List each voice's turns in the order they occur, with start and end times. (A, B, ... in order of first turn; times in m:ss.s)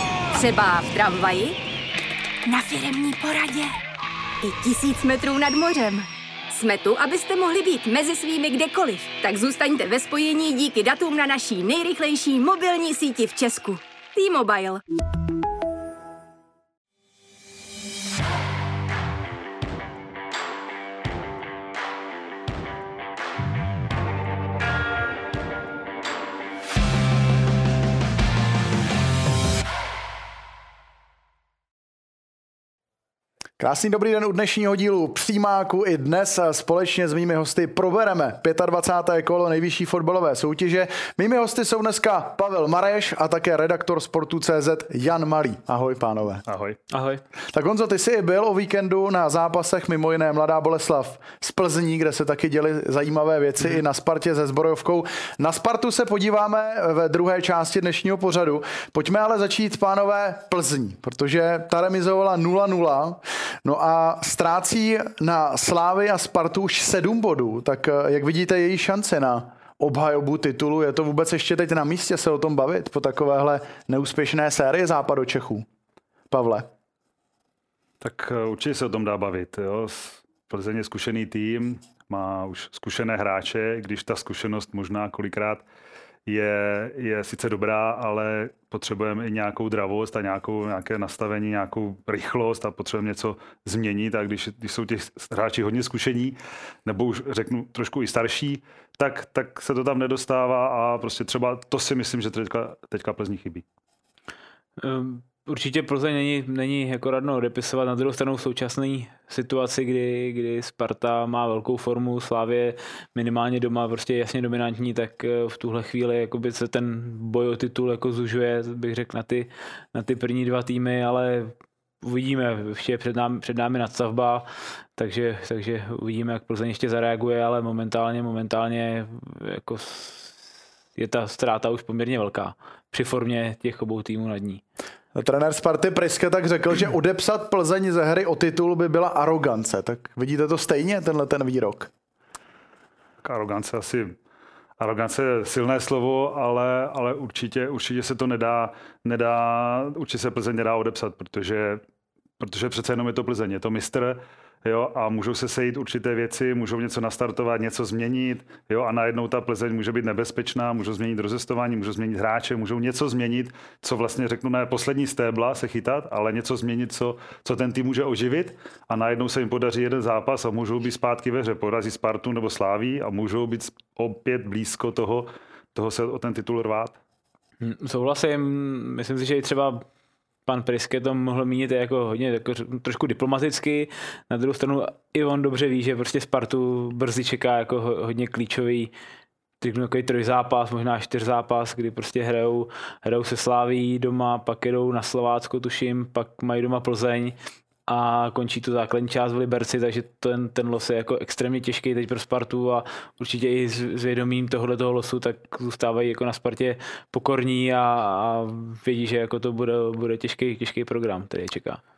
0:00.3-0:01.6 A
0:02.5-0:03.8 A
0:04.4-0:14.8 A
0:33.6-0:46.4 B
0:46.5-0:46.8 C
0:46.9-0:47.2 D
0:47.5-1:15.7 B
1:16.3-1:16.7 B
1:18.0-1:25.6 C
1:26.3-1:43.6 C
1:44.8-2:04.5 D
2:05.0-2:10.4 D
2:11.0-2:14.6 D
2:15.2-2:21.9 B
2:23.2-2:24.2 C
2:24.8-2:31.8 C
2:32.4-2:57.0 C
2:57.6-2:59.8 D
3:00.5-3:08.9 D
3:09.6-3:17.4 D
3:17.9-3:31.8 D